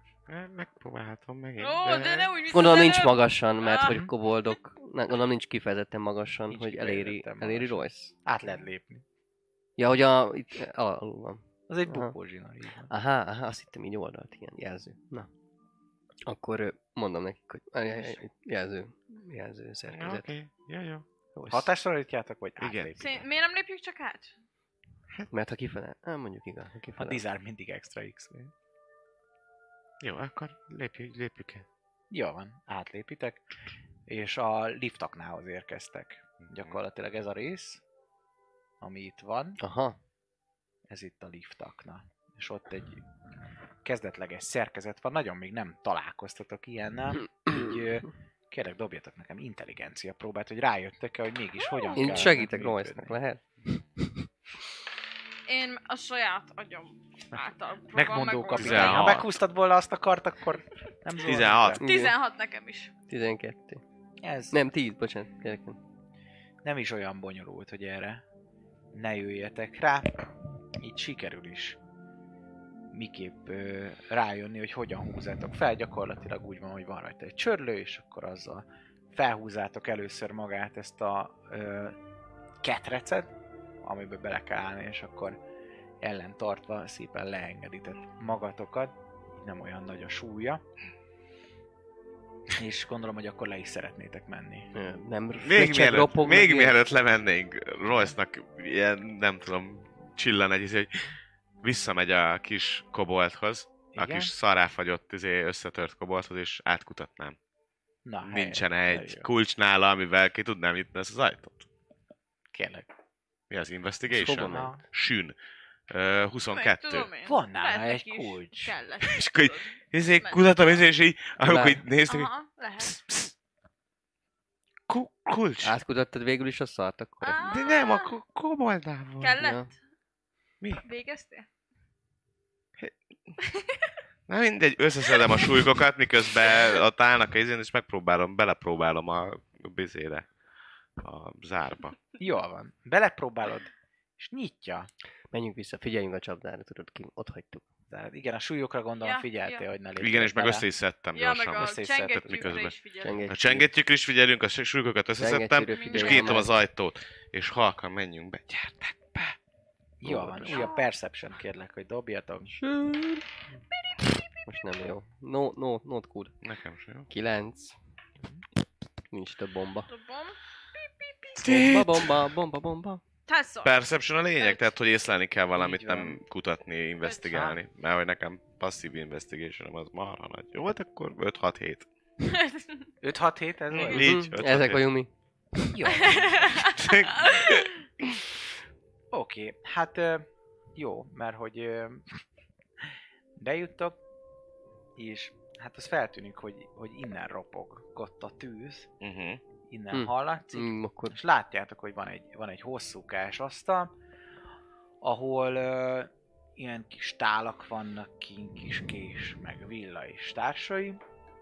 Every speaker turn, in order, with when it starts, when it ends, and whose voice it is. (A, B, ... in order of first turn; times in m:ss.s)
0:00.3-0:02.3 A
0:01.6-0:04.0 B
0:02.5-0:08.1 C
0:06.5-0:09.0 D
0:09.8-0:12.1 C
0:11.7-0:12.9 D
0:12.9-0:15.3 C
0:16.3-0:20.3 C
0:18.0-0:18.2 D
0:19.9-0:21.1 A
0:21.4-0:21.7 C
0:21.5-0:23.2 D
0:22.6-0:22.9 A
0:23.0-0:24.3 B
0:25.3-0:27.2 C
0:27.0-0:28.5 D
0:30.0-0:31.6 A
0:32.1-0:33.4 D
0:34.1-0:37.8 D
0:36.4-0:36.8 A
0:38.8-0:39.6 D
0:39.6-0:40.0 C
0:40.9-0:43.0 D
0:43.8-0:53.2 D
0:51.8-0:52.3 B
0:52.0-0:54.3 C
0:55.4-0:59.1 B
0:57.9-1:01.8 D
0:58.5-0:59.4 A
1:01.2-1:01.8 A
1:01.8-1:02.1 C
1:01.8-1:02.9 B
1:03.1-1:03.8 C
1:04.2-1:04.6 D
1:04.5-1:05.8 C
1:06.6-1:08.2 D
1:08.9-1:10.2 D
1:10.8-1:11.8 D
1:12.9-1:22.0 D
1:22.6-1:23.3 D
1:23.8-1:25.4 D
1:26.0-1:30.6 D
1:32.5-1:34.7 D
1:34.7-1:36.8 C
1:35.4-1:41.1 A
1:41.6-1:47.4 A
1:43.9-1:44.3 D
1:48.0-1:49.3 D
1:48.2-1:51.7 A
1:52.5-1:52.9 D
1:53.5-1:55.4 A
1:54.1-1:54.8 C
1:54.5-1:54.8 D
1:55.9-1:57.1 A
1:56.5-2:00.8 B
1:57.2-1:58.8 D
1:59.0-2:02.3 A
2:01.4-2:01.8 C
2:02.1-2:03.0 B
2:02.8-2:03.3 A
2:04.9-2:05.8 A
2:05.6-2:07.4 C
2:07.2-2:08.1 B
2:07.4-2:09.4 A
2:09.2-2:09.7 B
2:09.4-2:09.7 C
2:10.8-2:11.5 B
2:12.8-2:13.4 A
2:13.4-2:13.8 B
2:14.3-2:20.3 A
2:21.0-2:22.0 A
2:22.2-2:24.9 D
2:25.3-2:27.6 C
2:27.9-2:30.7 D
2:29.0-2:29.6 B
2:30.0-2:32.8 A
2:31.1-2:33.3 B
2:31.6-2:32.3 D
2:33.0-2:33.7 C
2:33.3-2:39.4 A
2:35.2-2:36.5 C
2:35.7-2:36.4 B
2:40.0-2:42.6 D
2:40.0-2:40.7 A
2:40.5-2:40.8 B
2:42.5-2:43.2 C
2:44.4-2:46.4 C
2:46.4-2:47.1 A
2:47.1-2:47.8 C
2:49.1-2:49.9 C
2:49.9-2:50.4 B
2:51.3-2:53.0 C
2:51.4-2:52.3 A
2:53.3-2:53.7 B
2:53.6-3:01.9 A
2:54.4-2:54.6 B
2:55.6-2:56.2 D
2:57.0-2:57.4 B
3:02.2-3:02.9 B
3:03.0-3:04.3 D
3:03.7-3:04.9 A
3:03.9-3:05.1 C
3:05.7-3:06.7 D
3:05.8-3:07.6 B
3:06.6-3:08.2 A
3:09.1-3:12.2 D
3:13.4-3:14.0 D
3:15.0-3:18.9 D
3:19.0-3:19.4 A
3:19.7-3:23.9 D
3:19.9-3:21.2 C
3:25.0-3:31.0 D